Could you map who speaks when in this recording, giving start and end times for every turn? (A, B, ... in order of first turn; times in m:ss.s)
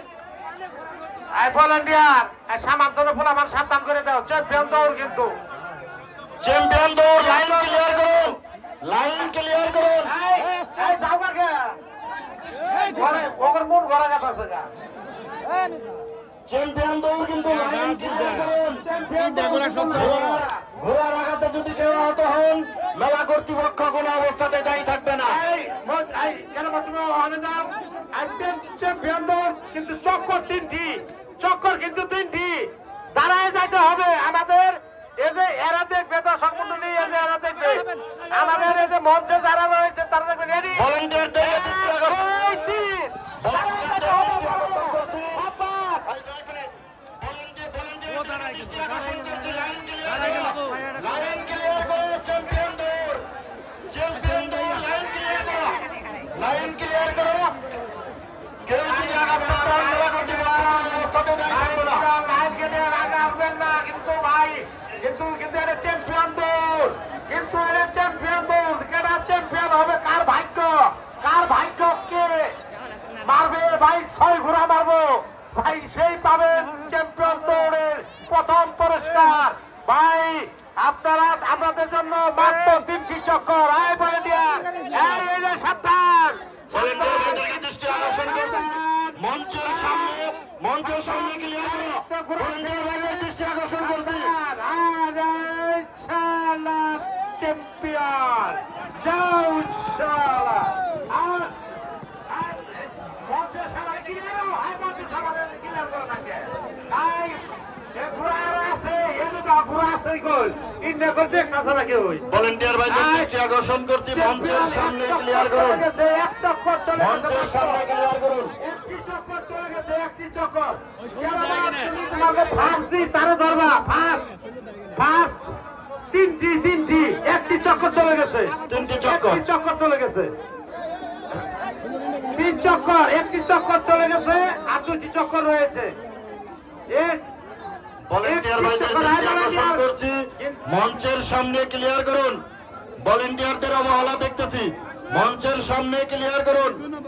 0:01.4-0:05.3 A
0:06.4-0:10.1 B
0:07.2-0:08.2 A
0:10.0-0:11.8 A
0:12.8-0:14.7 A
0:16.5-0:18.8 B
0:17.9-0:20.6 A
0:19.9-0:25.4 B
0:25.2-0:46.1 A
0:40.7-0:42.3 B
0:43.4-0:45.4 B
0:46.1-0:53.2 B
0:53.9-0:55.8 B
0:56.3-0:57.5 B
0:58.7-1:02.1 B
0:58.9-1:12.4 A
1:13.2-1:30.2 A
1:26.7-1:34.3 B
1:30.8-1:41.5 A
1:42.3-1:47.4 A
1:47.9-1:52.2 A
1:52.3-1:55.8 B
1:52.9-1:53.3 A
1:54.1-1:57.8 A
1:57.0-1:58.5 B
1:58.6-2:04.3 A
2:05.0-2:05.5 A
2:06.1-2:10.3 A
2:08.7-2:09.4 B
2:12.3-2:15.9 A
2:16.9-2:17.2 A
2:18.1-2:22.4 B
2:18.2-2:19.8 A
2:23.0-2:26.8 B